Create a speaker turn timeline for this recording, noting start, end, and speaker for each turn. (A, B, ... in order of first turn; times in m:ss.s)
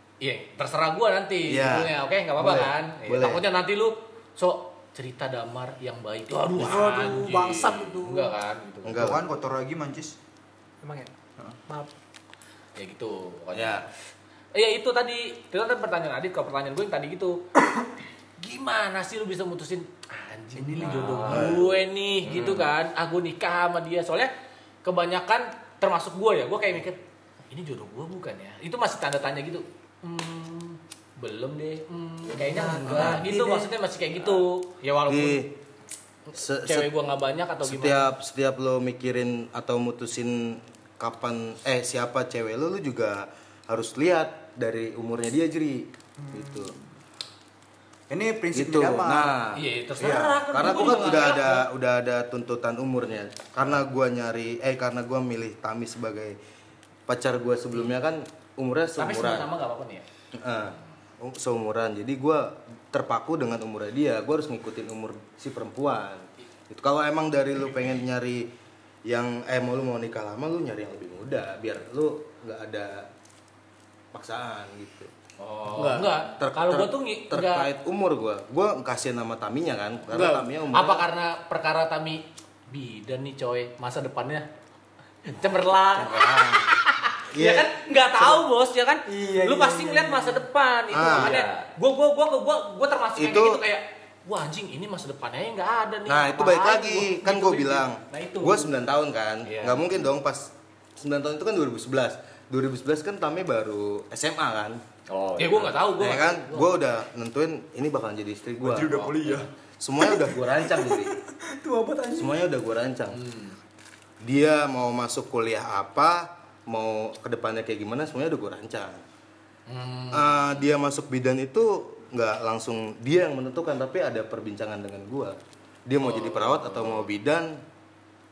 0:00.2-0:09.1 A
0:01.5-0:03.4 B
0:06.6-0:08.3 C
0:06.7-0:07.9 D
0:08.8-0:09.2 B
0:08.9-0:10.1 D
0:10.8-0:11.1 C
0:12.8-0:13.8 A
0:13.5-0:13.8 B
0:14.5-0:17.4 A
0:18.4-0:24.3 A
0:20.6-0:21.3 D
0:20.8-0:22.7 E
0:21.3-0:21.7 B
0:24.8-0:27.0 A
0:27.5-0:35.4 A
0:32.3-0:33.7 C
0:32.8-0:33.2 B
0:35.1-0:35.5 B
0:36.3-0:36.9 B
0:36.4-0:38.1 A
0:37.6-0:46.7 B
0:48.1-0:49.4 D
0:48.5-0:56.4 B
0:49.5-0:51.6 A
0:57.1-0:59.5 B
0:59.0-1:00.0 A
1:00.3-1:08.5 B
1:09.0-1:13.1 B
1:14.1-1:15.1 B
1:15.6-1:17.7 A
1:15.7-1:21.1 B
1:20.7-1:24.5 A
1:25.2-1:38.7 A
1:26.0-1:26.8 B
1:27.3-1:27.7 B
1:29.1-1:30.3 C
1:29.2-1:29.9 D
1:30.9-1:31.4 B
1:31.1-1:31.6 E
1:33.2-1:33.6 B
1:36.1-1:44.8 B
1:39.4-1:39.9 A
1:45.1-1:45.8 E
1:45.4-1:46.8 A
1:46.0-1:51.1 B
1:48.6-1:49.5 D
1:50.0-1:52.3 D
1:52.1-1:53.2 B
1:53.1-1:53.6 A
1:54.2-1:59.0 B
1:59.7-2:00.4 A
2:00.1-2:05.4 B
2:05.9-2:07.6 B
2:06.1-2:07.0 E